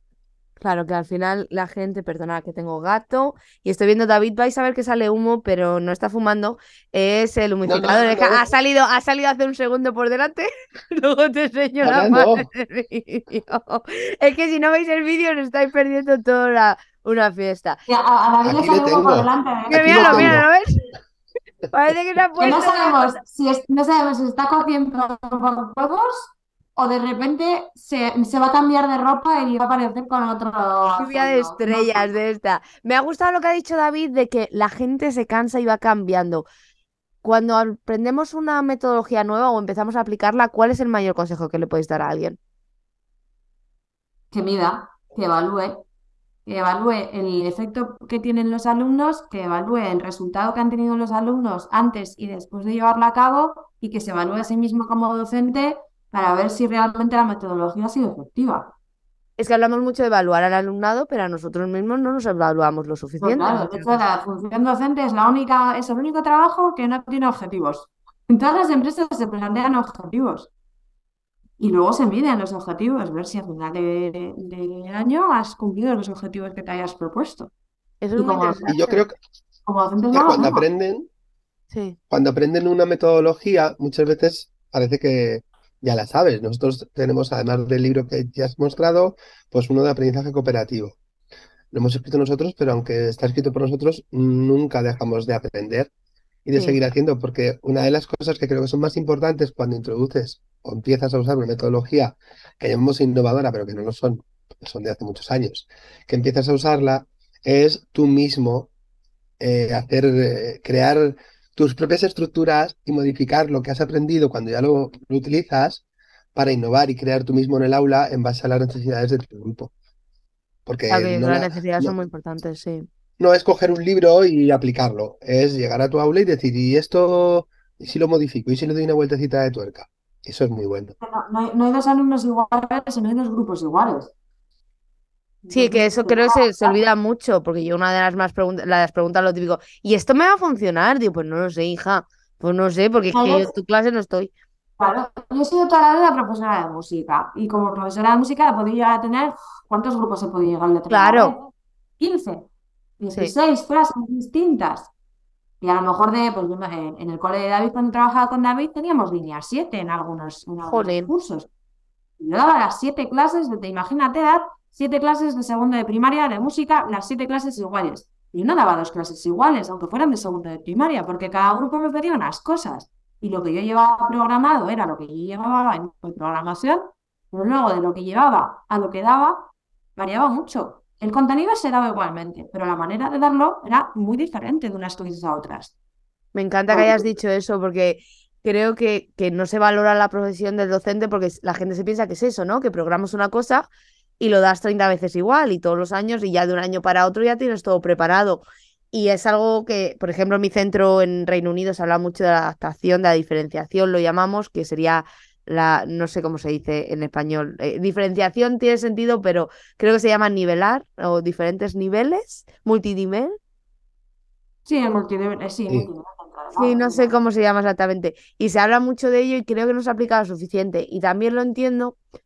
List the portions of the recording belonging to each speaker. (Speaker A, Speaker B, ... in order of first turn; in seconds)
Speaker A: 0.6-17.8, 19.7-20.8, 21.7-23.1, 30.9-36.5, 37.2-42.4, 59.4-64.0, 78.0-79.0, 81.7-82.0, 120.9-122.9, 135.5-144.3, 150.9-151.3, 160.7-161.1, 186.3-193.7, 194.2-213.4, 216.5-222.0
Speaker B: 7.7-8.5, 11.8-12.5, 18.4-20.5, 78.7-79.2, 80.1-81.1, 82.1-91.0, 91.7-95.9, 96.5-108.7, 109.4-115.8, 116.3-119.7, 120.7-122.0, 123.2-130.9
Speaker C: 17.9-20.4, 22.4-32.1, 44.3-45.8, 46.5-58.7, 63.2-70.5, 71.6-77.5, 78.2-78.7, 79.7-80.7, 131.0-134.1, 135.4-136.8, 143.1-143.5, 144.8-151.5, 152.0-152.5, 153.0-154.9, 155.6-161.5, 162.2-185.7, 186.7-187.1, 214.7-217.2